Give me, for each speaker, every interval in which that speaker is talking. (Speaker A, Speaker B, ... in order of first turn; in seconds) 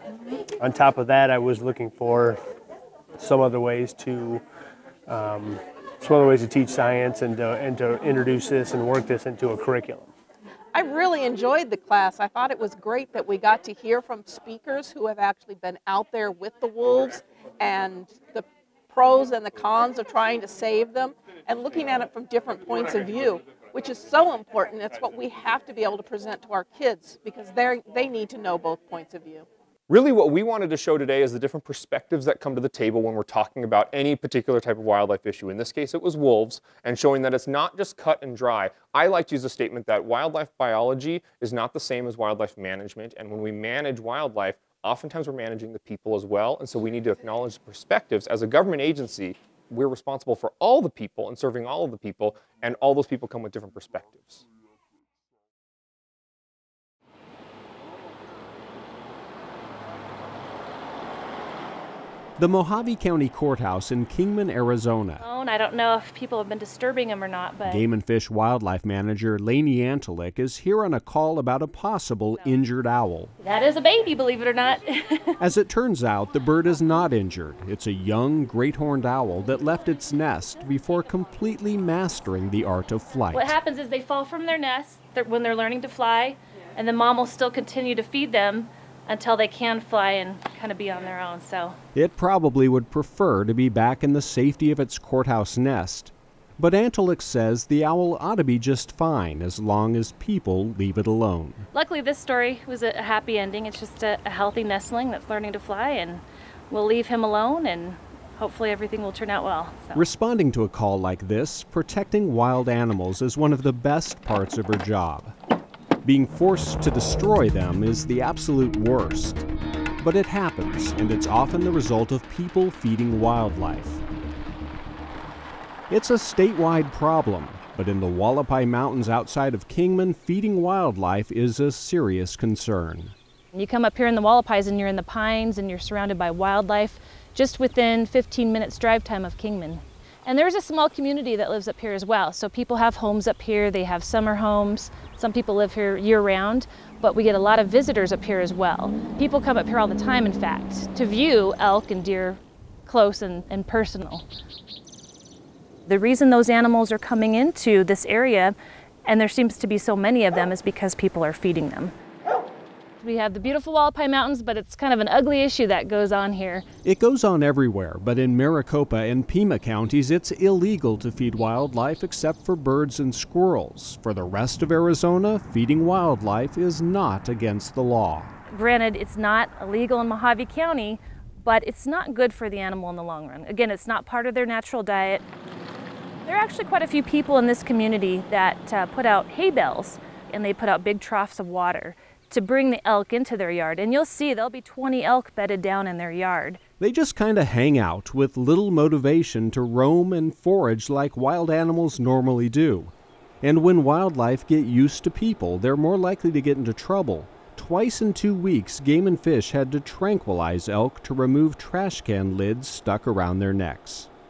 Speaker A: 0.6-2.4, 3.2-4.4, 5.1-10.1
Speaker B: 10.7-29.5
Speaker C: 29.9-54.4
Speaker D: 62.4-65.2, 67.7-73.3, 75.4-83.6, 92.0-101.7, 109.9-115.3, 116.0-119.4, 120.0-124.0, 125.9-133.2, 166.8-178.3, 196.8-214.1
Speaker E: 65.2-67.8, 73.4-75.3, 83.3-91.8, 101.7-110.0, 133.5-154.2, 155.9-161.9, 163.0-166.7, 178.5-185.2, 186.2-196.6